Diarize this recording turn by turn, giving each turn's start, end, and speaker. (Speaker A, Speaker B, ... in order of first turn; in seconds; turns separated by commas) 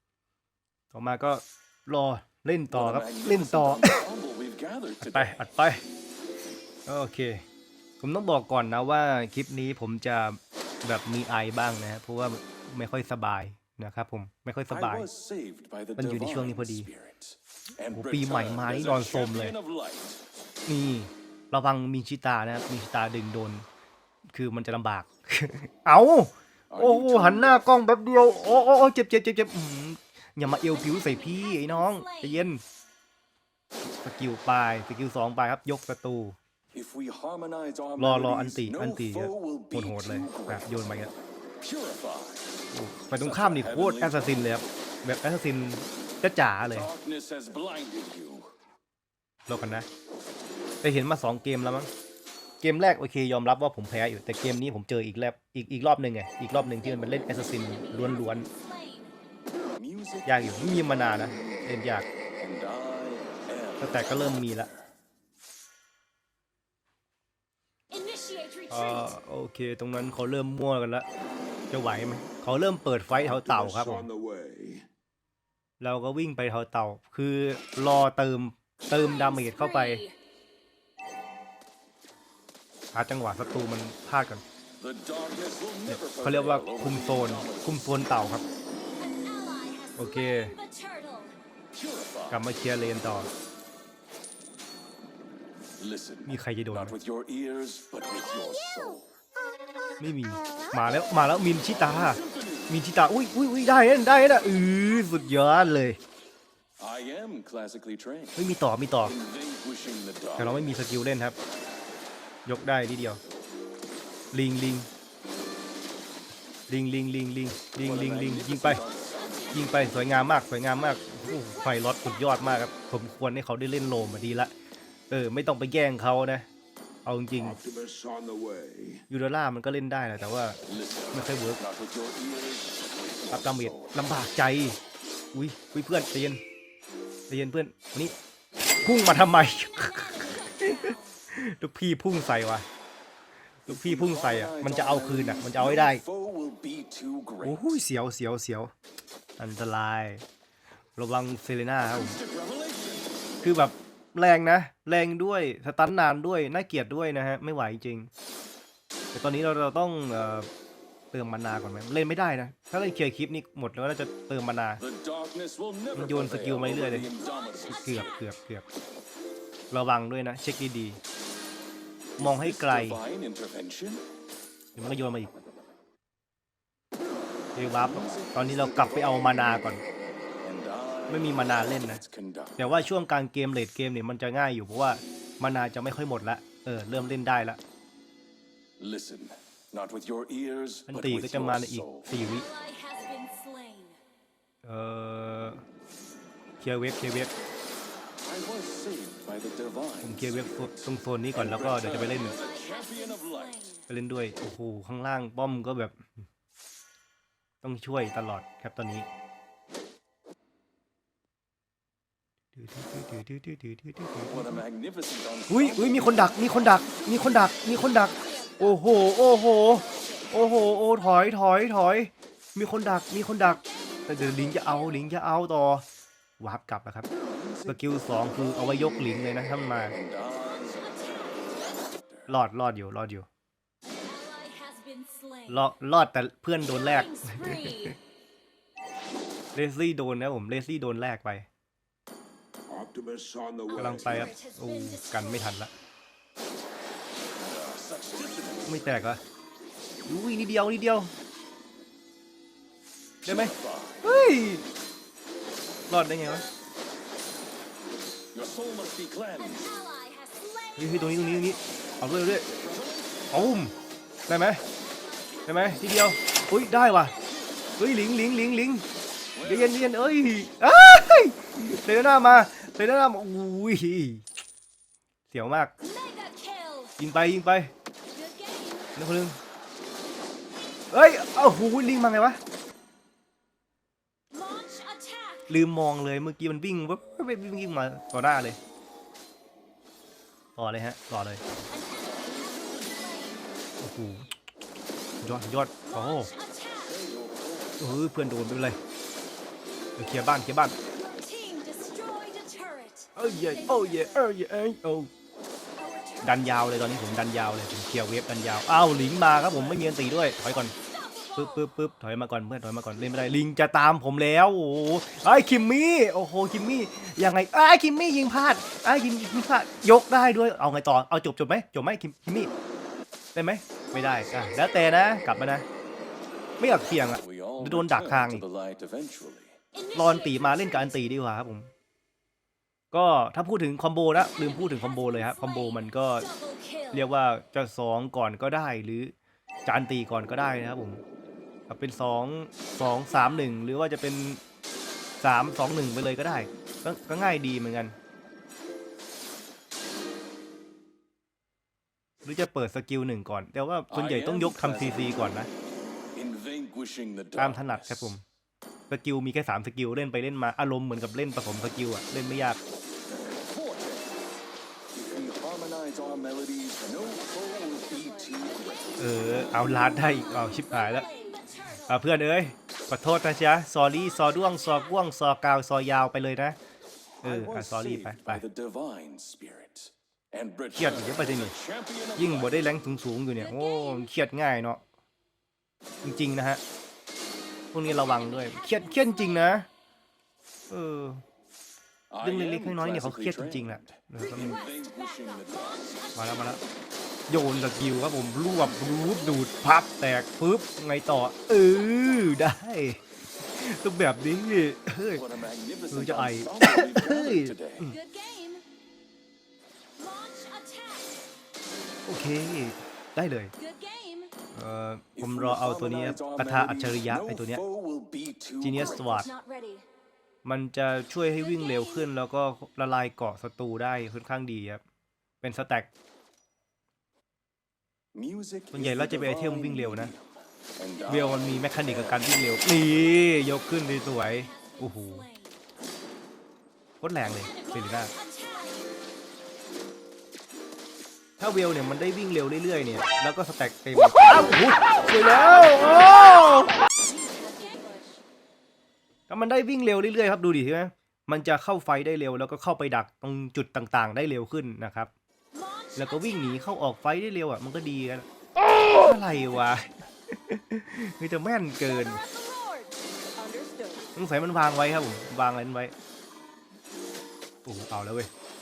Speaker A: 0.9-4.0, Speaker B: 2.7-5.4, Speaker A: 5.0-5.8, Speaker A: 6.9-7.4, Speaker A: 8.0-15.1, Speaker B: 14.7-20.2, Speaker A: 16.0-16.9, Speaker A: 17.9-19.6, Speaker A: 20.7-23.6, Speaker A: 24.3-32.6, Speaker B: 26.7-27.6, Speaker C: 30.7-32.5, Speaker A: 33.9-36.4, Speaker B: 36.7-42.5, Speaker A: 38.0-41.1, Speaker A: 42.7-46.9, Speaker B: 43.1-44.4, Speaker B: 46.7-48.5, Speaker A: 49.5-49.9, Speaker A: 50.8-51.9, Speaker A: 52.6-58.5, Speaker C: 56.8-59.1, Speaker B: 59.8-61.8, Speaker A: 60.2-62.1, Speaker B: 62.4-64.8, Speaker A: 63.8-64.7, Speaker C: 67.9-69.1, Speaker A: 68.7-71.1, Speaker A: 71.7-74.1, Speaker D: 73.1-74.8, Speaker A: 75.8-80.0, Speaker C: 78.9-80.1, Speaker A: 82.9-84.4, Speaker B: 84.8-87.8, Speaker A: 85.9-88.4, Speaker C: 89.0-91.3, Speaker A: 90.0-90.5, Speaker B: 91.7-92.4, Speaker A: 92.3-93.3, Speaker B: 95.8-99.1, Speaker A: 96.2-97.0, Speaker A: 100.0-106.0, Speaker B: 101.6-102.7, Speaker B: 106.8-108.4, Speaker A: 108.3-109.1, Speaker B: 109.0-110.8, Speaker A: 110.4-111.4, Speaker A: 112.5-113.2, Speaker A: 114.3-114.9, Speaker A: 116.7-118.8, Speaker B: 117.8-119.7, Speaker A: 119.5-124.5, Speaker A: 125.1-126.5, Speaker A: 127.0-127.6, Speaker D: 127.4-129.0, Speaker A: 129.1-130.6, Speaker B: 130.7-133.9, Speaker A: 131.1-131.6, Speaker A: 133.3-134.8, Speaker A: 135.3-136.4, Speaker A: 137.3-138.1, Speaker A: 138.8-142.6, Speaker C: 139.5-141.2, Speaker A: 143.7-146.0, Speaker B: 143.7-147.6, Speaker A: 147.4-148.7, Speaker A: 149.4-150.2, Speaker A: 151.0-152.2, Speaker B: 151.8-153.4, Speaker A: 153.4-158.1, Speaker A: 159.1-160.5, Speaker A: 161.1-164.8, Speaker B: 164.8-168.1, Speaker A: 165.9-167.1, Speaker A: 167.7-168.6, Speaker A: 169.7-171.0, Speaker A: 172.2-173.0, Speaker B: 172.2-174.0, Speaker A: 174.8-175.3, Speaker A: 177.5-179.8, Speaker B: 177.8-179.8, Speaker B: 180.4-182.7, Speaker A: 181.1-182.0, Speaker A: 182.6-187.6, Speaker B: 188.8-192.1, Speaker A: 190.9-192.5, Speaker C: 192.2-194.0, Speaker A: 194.6-195.6, Speaker A: 196.6-197.3, Speaker B: 198.1-203.6, Speaker A: 200.0-202.3, Speaker C: 202.3-203.8, Speaker A: 203.9-206.0, Speaker A: 207.6-209.1, Speaker A: 212.5-214.6, Speaker B: 214.3-216.9, Speaker A: 215.5-225.8, Speaker C: 216.9-220.4, Speaker C: 223.6-225.0, Speaker A: 226.4-227.1, Speaker B: 227.1-229.2, Speaker A: 227.7-229.9, Speaker B: 229.9-232.3, Speaker C: 230.6-231.5, Speaker A: 232.3-233.3, Speaker C: 233.9-235.6, Speaker A: 235.5-237.9, Speaker C: 236.6-237.9, Speaker A: 239.5-241.5, Speaker D: 242.7-244.2, Speaker C: 243.7-245.5, Speaker A: 243.8-245.7, Speaker B: 247.4-248.8, Speaker A: 248.7-249.2, Speaker A: 250.1-251.1, Speaker A: 253.2-254.7, Speaker B: 253.2-254.1, Speaker A: 255.9-256.4, Speaker B: 258.3-259.7, Speaker C: 259.5-261.6, Speaker A: 260.8-262.6, Speaker B: 262.3-263.3, Speaker A: 263.3-263.7, Speaker A: 264.3-264.6, Speaker C: 264.8-266.1, Speaker A: 265.4-267.2, Speaker C: 266.8-267.5, Speaker A: 267.8-268.8, Speaker B: 269.3-269.9, Speaker A: 269.4-274.2, Speaker A: 275.3-275.7, Speaker C: 275.8-277.0, Speaker A: 277.0-277.7, Speaker C: 278.1-278.9, Speaker A: 278.9-279.4, Speaker A: 280.9-282.4, Speaker C: 284.3-285.4, Speaker A: 285.5-288.6, Speaker A: 290.6-291.4, Speaker C: 291.7-293.4, Speaker A: 293.8-294.3, Speaker A: 295.2-296.3, Speaker C: 295.9-297.0, Speaker B: 296.8-298.0, Speaker A: 297.8-298.8, Speaker A: 300.0-300.8, Speaker C: 300.9-304.2, Speaker A: 303.1-305.1, Speaker C: 305.8-306.5, Speaker A: 306.2-310.7, Speaker C: 310.7-311.6, Speaker A: 311.4-322.5, Speaker A: 323.3-325.6, Speaker A: 326.6-328.4, Speaker B: 327.2-329.6, Speaker C: 329.7-330.9, Speaker A: 329.9-331.7, Speaker A: 332.9-336.3, Speaker C: 334.3-337.0, Speaker A: 336.9-339.1, Speaker A: 339.6-341.0, Speaker A: 341.7-344.4, Speaker A: 345.2-347.9, Speaker A: 352.2-355.5, Speaker B: 353.9-355.4, Speaker B: 356.1-358.1, Speaker A: 357.4-358.2, Speaker A: 358.9-362.6, Speaker B: 363.1-364.2, Speaker B: 364.9-369.4, Speaker C: 367.4-371.9, Speaker A: 369.0-371.1, Speaker A: 371.8-376.6, Speaker A: 377.2-378.4, Speaker B: 377.2-382.7, Speaker A: 380.8-381.5, Speaker A: 382.2-384.8, Speaker C: 383.4-384.1, Speaker A: 386.0-386.6, Speaker A: 387.7-389.7, Speaker C: 387.9-389.5, Speaker A: 390.7-391.2, Speaker B: 392.1-396.0, Speaker A: 392.2-394.6, Speaker A: 396.1-396.6, Speaker A: 397.3-403.0, Speaker A: 403.5-405.2, Speaker B: 405.1-407.9, Speaker A: 405.9-407.9, Speaker C: 407.9-408.6, Speaker C: 410.0-411.2, Speaker A: 412.1-413.5, Speaker C: 413.6-414.3, Speaker A: 414.5-417.6, Speaker B: 415.1-419.1, Speaker A: 418.6-419.3, Speaker C: 418.8-419.9, Speaker A: 420.4-424.8, Speaker C: 421.4-422.0, Speaker A: 425.4-425.9, Speaker B: 428.1-432.3, Speaker A: 428.7-430.1, Speaker A: 431.1-435.2, Speaker C: 434.3-435.6, Speaker A: 437.0-438.1, Speaker C: 437.5-438.9, Speaker A: 441.4-446.8, Speaker C: 447.0-448.2, Speaker A: 449.3-455.1, Speaker C: 455.5-456.2, Speaker A: 455.9-458.3, Speaker A: 458.8-462.2, Speaker C: 461.9-464.1, Speaker A: 464.1-465.9, Speaker A: 467.6-468.3